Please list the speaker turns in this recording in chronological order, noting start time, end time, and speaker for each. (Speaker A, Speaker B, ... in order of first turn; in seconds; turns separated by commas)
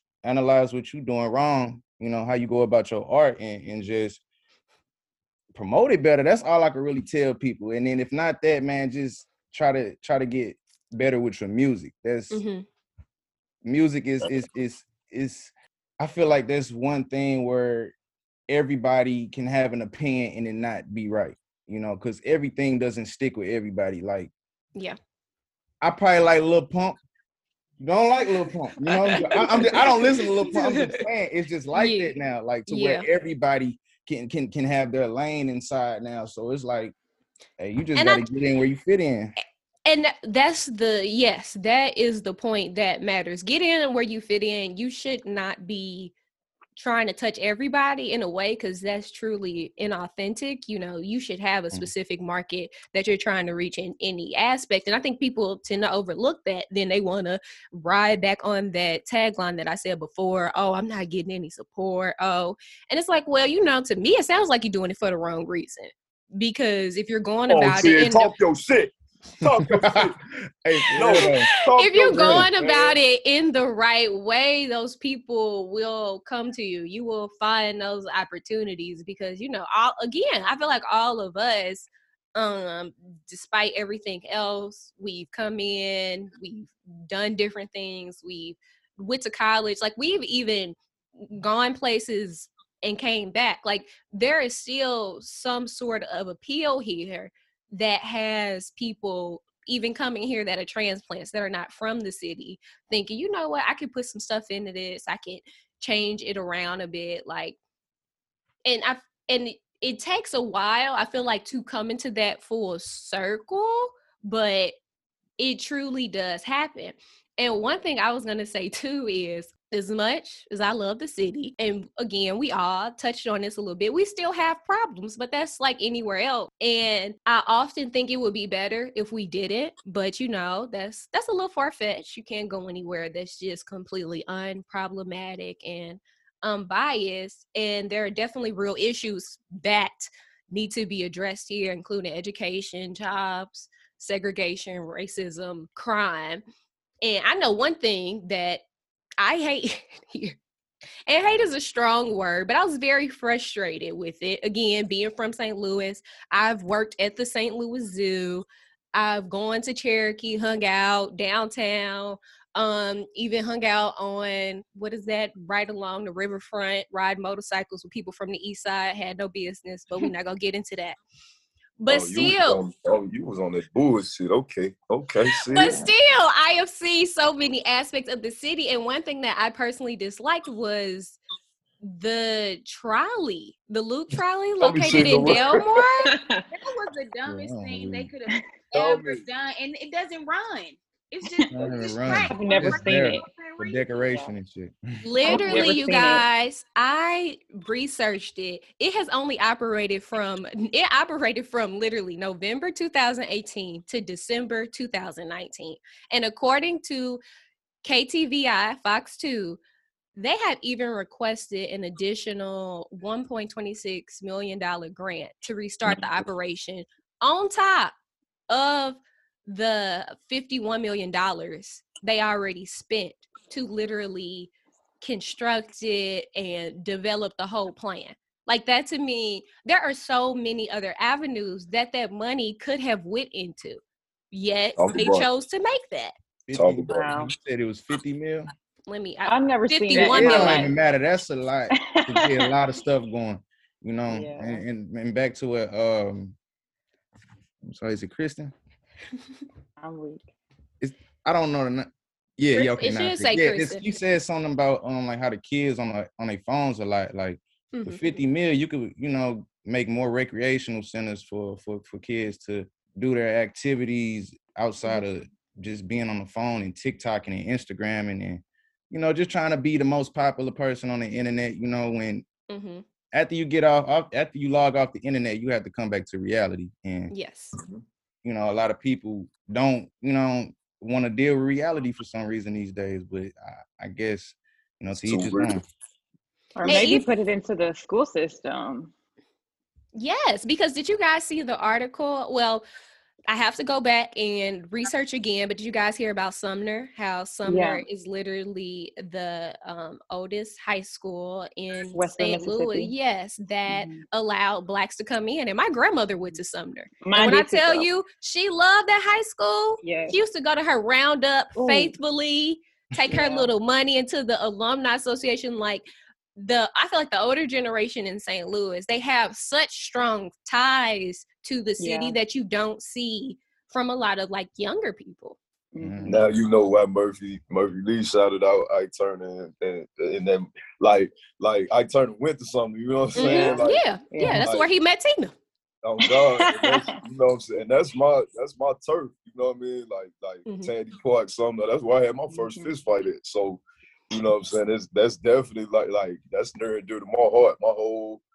Speaker A: 0.2-4.2, Speaker A: 5.5-12.4, Speaker B: 12.3-12.6, Speaker A: 13.6-17.9, Speaker A: 18.5-24.3, Speaker A: 25.8-27.0, Speaker A: 27.8-36.9, Speaker B: 28.8-31.0, Speaker B: 31.7-32.1, Speaker B: 32.7-33.0, Speaker A: 37.6-39.3, Speaker B: 38.0-38.3, Speaker B: 39.9-46.1, Speaker B: 46.8-68.3, Speaker C: 67.5-70.2, Speaker A: 69.7-70.1, Speaker A: 70.6-71.5, Speaker B: 70.9-107.5, Speaker C: 70.9-72.9, Speaker A: 72.1-72.5, Speaker B: 108.6-114.7, Speaker B: 115.4-146.4, Speaker B: 147.0-148.6, Speaker B: 149.2-150.3, Speaker B: 151.1-171.0, Speaker B: 171.8-172.6, Speaker C: 171.9-175.9, Speaker B: 175.4-181.2, Speaker B: 181.8-186.1, Speaker C: 184.6-185.6, Speaker D: 186.0-186.4, Speaker E: 186.5-194.3, Speaker A: 187.3-188.1, Speaker C: 188.7-189.2, Speaker D: 191.5-193.3, Speaker A: 191.5-194.8, Speaker B: 195.0-207.2, Speaker D: 195.2-196.2, Speaker A: 195.3-195.7, Speaker B: 207.8-209.6, Speaker B: 210.1-217.9, Speaker B: 218.5-233.8, Speaker B: 234.3-236.1, Speaker C: 234.8-235.2, Speaker A: 236.5-238.5, Speaker C: 236.5-237.1, Speaker D: 236.9-237.3, Speaker B: 238.9-240.7, Speaker D: 239.2-240.7, Speaker A: 239.9-246.3, Speaker D: 241.7-242.5, Speaker D: 244.1-244.6, Speaker A: 247.6-248.5, Speaker D: 249.8-250.2, Speaker A: 250.8-272.2, Speaker B: 252.5-253.8, Speaker B: 257.7-258.2, Speaker B: 272.5-272.8, Speaker A: 273.1-277.1, Speaker B: 277.1-277.6, Speaker C: 277.6-277.8, Speaker A: 278.2-285.6, Speaker C: 284.9-285.6, Speaker D: 286.6-288.9, Speaker B: 286.6-287.1, Speaker B: 289.9-292.6, Speaker B: 293.3-325.4, Speaker D: 297.4-297.8, Speaker D: 301.9-302.9, Speaker D: 303.7-304.0, Speaker D: 307.0-307.9, Speaker D: 309.8-310.2, Speaker D: 311.5-311.9, Speaker D: 313.1-313.5, Speaker D: 321.8-322.2, Speaker D: 325.7-326.3, Speaker A: 325.8-326.2, Speaker C: 326.1-334.7, Speaker D: 333.1-334.5, Speaker B: 333.1-335.3, Speaker C: 335.8-348.2, Speaker D: 336.0-337.0, Speaker B: 340.4-340.7, Speaker D: 342.3-342.7